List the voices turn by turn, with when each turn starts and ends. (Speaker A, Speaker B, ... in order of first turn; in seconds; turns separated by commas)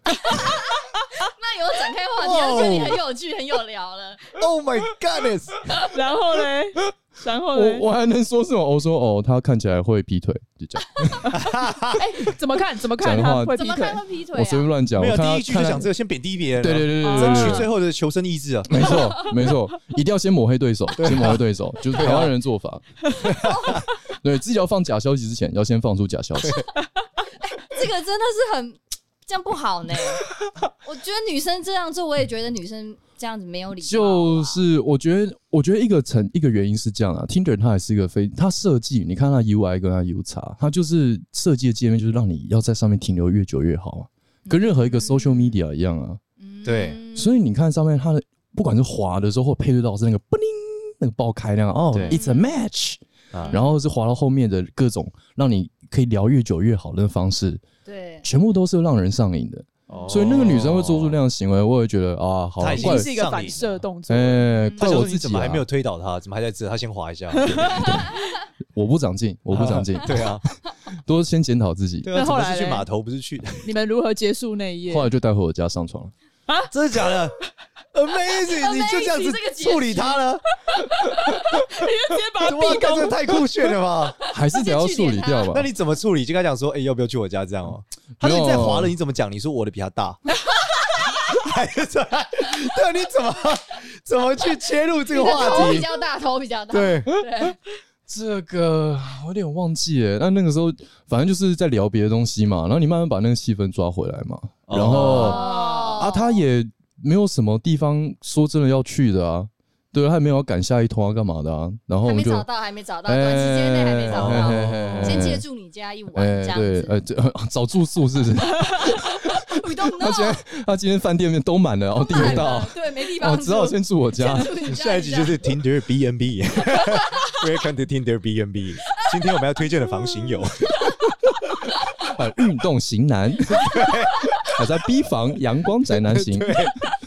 Speaker A: 0.3-4.4, Speaker B: 2.2-3.0, Speaker B: 4.3-5.7, Speaker C: 5.9-7.9, Speaker D: 7.5-11.4, Speaker B: 11.3-12.0, Speaker C: 11.9-14.0, Speaker D: 13.0-13.6, Speaker A: 13.5-14.7, Speaker D: 14.3-15.9, Speaker B: 14.9-19.3, Speaker D: 16.6-17.7, Speaker C: 17.0-17.7, Speaker D: 18.7-23.5, Speaker B: 21.0-22.3, Speaker B: 23.2-23.8, Speaker A: 23.4-23.8, Speaker D: 24.2-26.6, Speaker A: 27.4-34.6, Speaker D: 33.8-46.2, Speaker A: 44.5-45.6, Speaker A: 46.4-47.4, Speaker B: 46.6-47.0, Speaker D: 47.1-57.6, Speaker B: 51.9-52.2, Speaker A: 52.1-52.5, Speaker B: 53.3-53.6, Speaker A: 57.9-58.3, Speaker D: 58.2-63.1, Speaker B: 59.9-61.2, Speaker A: 60.0-60.3, Speaker B: 62.6-63.8, Speaker C: 62.7-64.5, Speaker D: 64.1-65.7, Speaker A: 64.6-65.0, Speaker B: 64.8-68.0, Speaker C: 67.3-68.0, Speaker D: 67.6-68.1, Speaker D: 68.7-70.4, Speaker B: 69.5-70.5, Speaker D: 71.0-72.1, Speaker B: 72.0-73.7, Speaker C: 72.1-72.9, Speaker C: 73.6-75.1, Speaker D: 74.9-76.1, Speaker B: 76.7-77.3, Speaker B: 77.9-80.4, Speaker A: 78.5-80.2, Speaker C: 81.3-83.4, Speaker B: 82.4-84.2, Speaker D: 84.3-85.7, Speaker A: 84.5-85.5, Speaker B: 85.5-90.2, Speaker D: 88.2-88.9, Speaker B: 91.1-95.9, Speaker A: 95.1-97.6, Speaker B: 96.7-97.1, Speaker D: 98.1-112.5, Speaker B: 104.7-105.4, Speaker A: 104.9-106.4, Speaker C: 104.9-106.1, Speaker A: 112.0-116.9, Speaker D: 113.0-115.4, Speaker B: 114.1-115.4, Speaker D: 116.1-124.5, Speaker A: 118.9-120.4, Speaker A: 121.9-125.5, Speaker B: 122.1-122.5, Speaker B: 124.6-130.8, Speaker A: 126.8-127.3, Speaker A: 128.9-130.7, Speaker D: 132.0-136.7, Speaker B: 133.5-134.2, Speaker B: 135.9-136.9